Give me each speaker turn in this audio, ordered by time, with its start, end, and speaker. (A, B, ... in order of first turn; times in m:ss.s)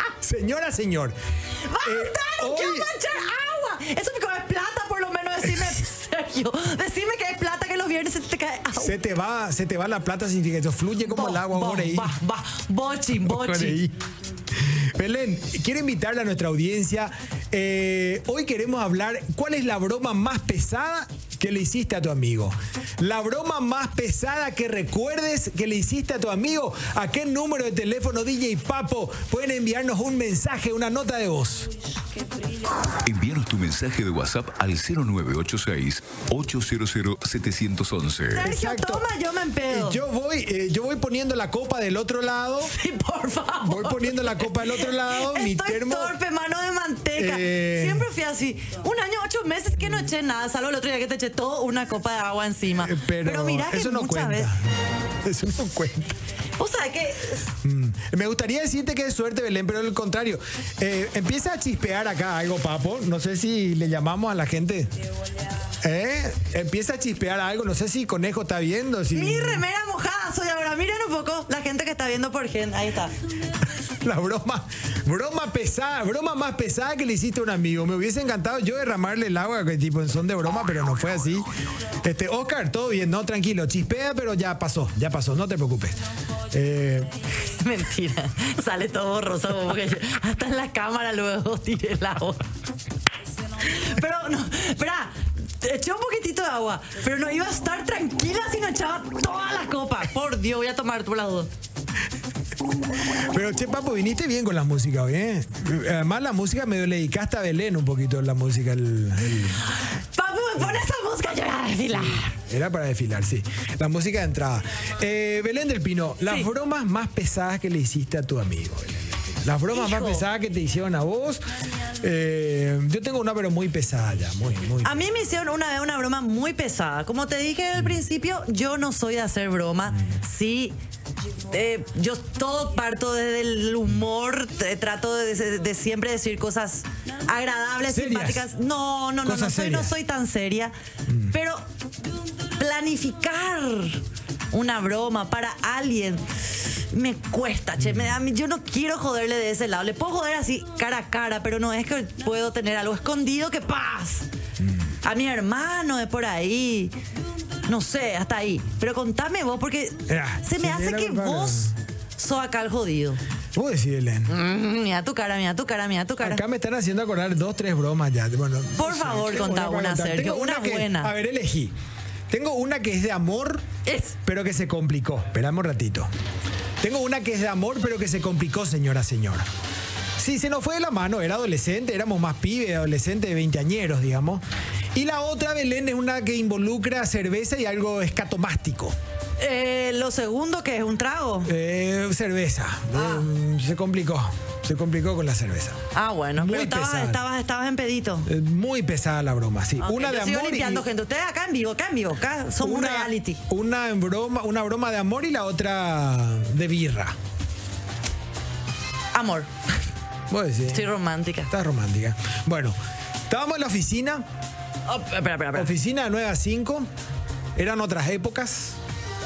0:00.2-0:01.2 A
0:01.6-0:09.0 B
0:01.8-0:02.9 A
0:08.8-0:12.1 A
0:11.0-0:13.8 B
0:13.2-0:14.0 A
0:14.5-0:31.7 A
0:33.0-0:38.4 C
0:38.3-0:40.0 B
0:38.4-0:39.1 A
0:39.7-0:42.7 A
0:42.7-0:54.5 B
0:43.6-0:46.2 A
0:47.2-0:48.1 A
0:52.8-0:54.7 A
0:55.2-0:56.1 A
0:56.6-0:57.5 B
0:57.6-1:04.9 A
1:05.8-1:09.6 A
1:09.1-1:13.1 B
1:14.0-1:21.5 A
1:22.0-1:26.0 A
1:26.5-1:27.1 A
1:27.4-1:32.4 B
1:33.6-1:41.5 B
1:43.1-1:49.6 A
1:49.8-1:52.4 B
1:52.0-2:01.4 A
1:59.7-2:00.2 B
2:02.0-2:05.1 A
2:04.8-2:10.8 B
2:11.5-2:20.7 B
2:17.9-2:18.5 A
2:19.2-2:19.9 A
2:21.1-2:21.3 A
2:21.3-2:21.6 B
2:22.6-2:34.3 B
2:27.8-2:28.2 A
2:34.6-2:34.9 A
2:35.0-2:37.0 B
2:37.7-2:43.2 B
2:40.1-2:41.7 A
2:43.6-2:44.3 A
2:44.3-2:46.4 B
2:46.2-2:51.8 A
2:48.8-2:51.1 B
2:52.3-2:53.7 A
2:53.9-2:54.2 B
2:54.2-2:56.1 A
2:56.8-2:59.5 A
3:00.2-3:04.4 A
3:05.0-3:09.0 A
3:09.4-3:11.5 B
3:11.4-3:15.8 A
3:12.9-3:13.3 B
3:15.9-3:18.3 B
3:16.4-3:17.2 A
3:18.2-3:20.9 A
3:19.8-3:23.4 B
3:22.6-3:27.2 A
3:29.1-3:29.5 B
3:30.3-3:30.9 A
3:30.7-3:31.5 B
3:31.5-3:32.8 A
3:33.3-3:34.2 A
3:34.9-3:35.7 B
3:35.6-3:36.9 A
3:37.6-3:38.8 A